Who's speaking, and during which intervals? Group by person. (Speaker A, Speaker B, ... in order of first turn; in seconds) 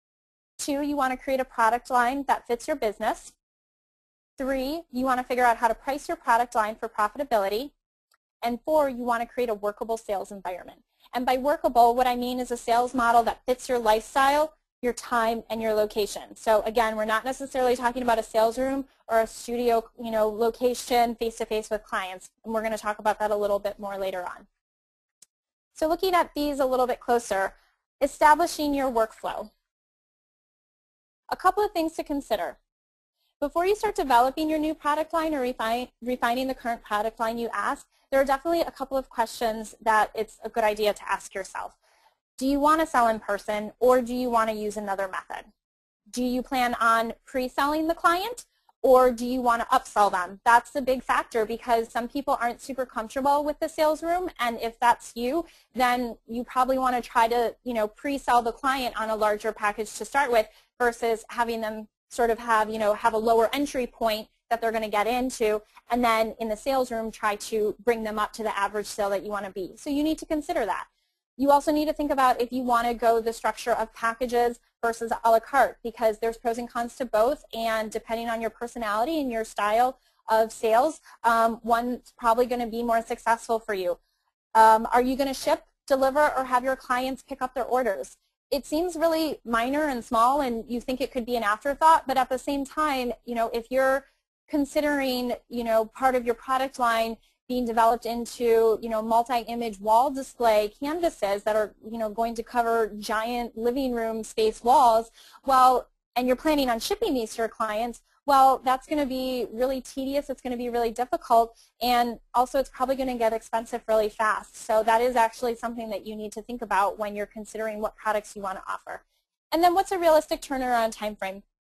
Speaker A: 0.6-3.3, 4.4-7.7, 8.4-24.4, 25.7-29.5, 31.3-32.6, 33.4-41.8, 42.4-45.5, 46.1-84.0, 84.5-121.4